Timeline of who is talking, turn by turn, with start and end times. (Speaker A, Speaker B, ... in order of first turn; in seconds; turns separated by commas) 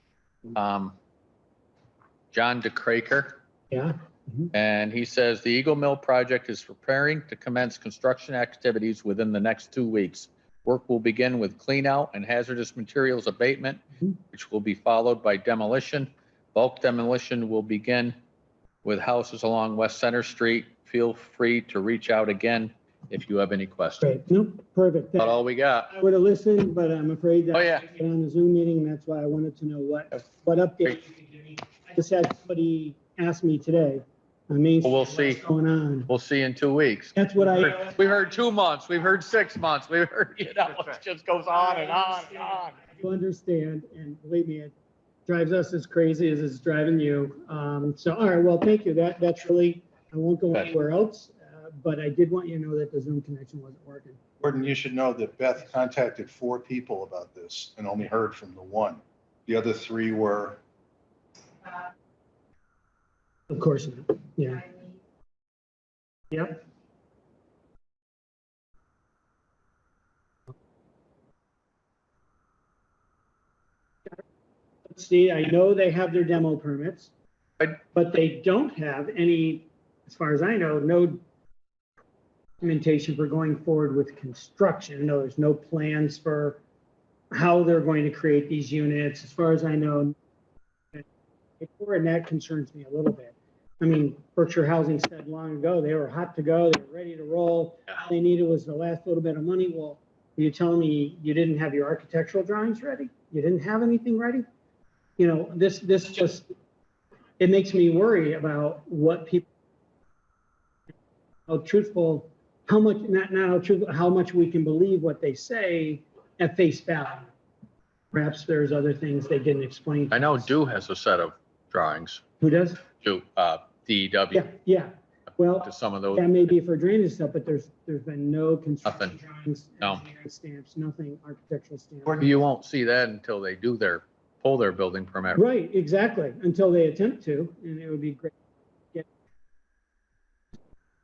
Speaker A: 0.5-0.9, Speaker A: 2.3-3.4, Speaker B: 3.7-4.5, Speaker A: 4.5-18.1, Speaker A: 18.8-24.1, Speaker B: 24.0-25.4, Speaker A: 25.2-25.9, Speaker B: 25.9-36.1, Speaker A: 27.5-27.9, Speaker A: 34.8-35.4, Speaker A: 36.1-42.8, Speaker B: 37.1-38.0, Speaker B: 41.5-44.7, Speaker B: 45.3-54.2, Speaker C: 54.4-60.6, Speaker B: 63.5-64.8, Speaker B: 66.3-66.6, Speaker B: 74.9-77.1, Speaker B: 77.8-81.2, Speaker B: 82.6-86.6, Speaker B: 87.3-90.2, Speaker B: 91.6-104.5, Speaker B: 105.2-106.5, Speaker B: 107.4-109.5, Speaker B: 111.5-117.3, Speaker B: 118.1-120.5, Speaker A: 120.1-122.2, Speaker B: 122.4-122.8, Speaker A: 123.0-124.5, Speaker B: 124.3-132.3, Speaker A: 125.6-126.4, Speaker A: 128.8-129.2, Speaker A: 132.2-135.4, Speaker B: 135.3-138.3